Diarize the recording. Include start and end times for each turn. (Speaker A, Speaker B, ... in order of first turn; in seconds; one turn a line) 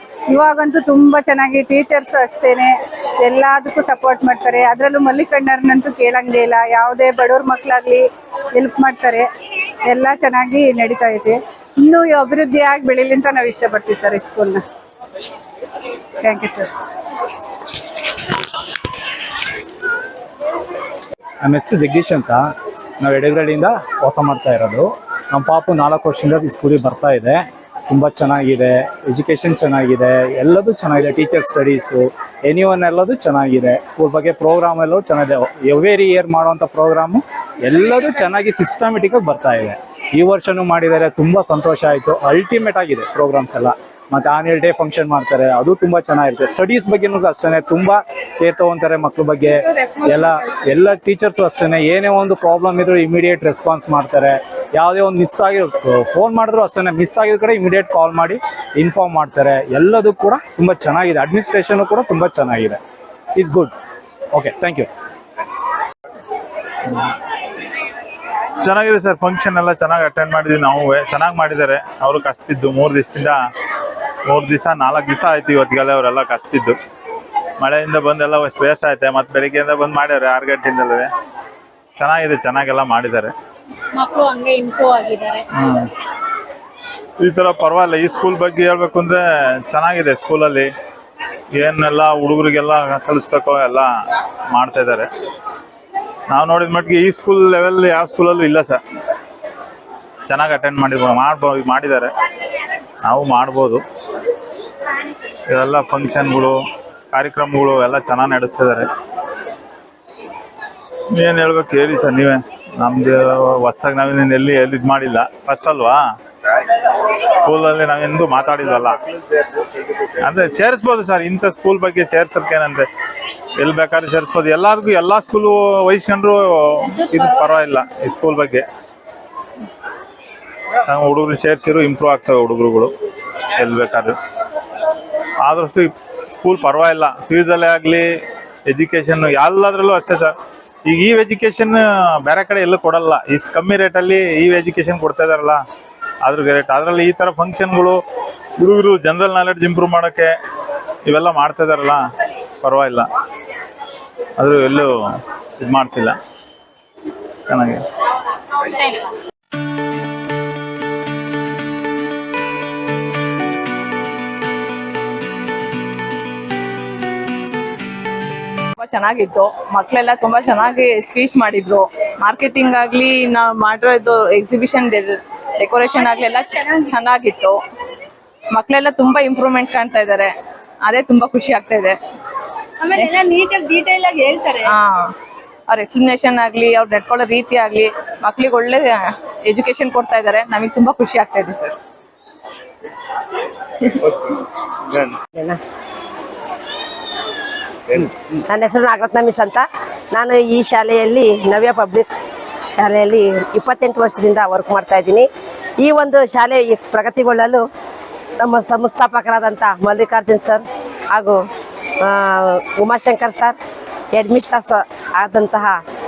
Speaker A: 0.3-9.3
Speaker A: 9.9-14.6
Speaker A: 16.2-16.7
Speaker B: 21.4-22.5
Speaker B: 23.0-62.8
Speaker B: 63.4-63.7
Speaker B: 64.3-64.9
Speaker C: 68.6-73.4
Speaker C: 74.3-76.8
Speaker C: 77.6-81.1
Speaker C: 82.0-83.3
Speaker D: 84.0-85.3
Speaker C: 85.6-85.9
Speaker C: 87.2-90.7
Speaker C: 91.5-93.9
Speaker C: 94.5-95.1
Speaker C: 96.3-98.8
Speaker C: 100.3-102.1
Speaker C: 103.0-103.8
Speaker C: 105.5-106.6
Speaker C: 107.1-108.9
Speaker C: 111.2-116.0
Speaker C: 117.5-119.0
Speaker C: 120.2-122.9
Speaker C: 123.6-128.7
Speaker C: 130.9-132.9
Speaker C: 133.6-134.2
Speaker C: 135.4-138.1
Speaker C: 138.7-140.3
Speaker C: 140.9-145.6
Speaker C: 146.2-148.0
Speaker C: 148.6-150.3
Speaker C: 151.1-152.0
Speaker C: 152.6-153.1
Speaker C: 154.4-154.9
Speaker C: 155.6-156.2
Speaker C: 157.5-157.8
Speaker E: 168.8-177.6
Speaker E: 178.6-180.3
Speaker E: 180.8-182.0
Speaker D: 182.9-184.7
Speaker E: 184.6-185.1
Speaker E: 185.7-191.7
Speaker F: 198.5-199.6
Speaker F: 200.2-202.1
Speaker F: 202.7-205.3
Speaker F: 205.8-207.6
Speaker F: 208.4-210.6
Speaker F: 211.1-211.4
Speaker F: 212.1-213.6
Speaker F: 214.2-215.8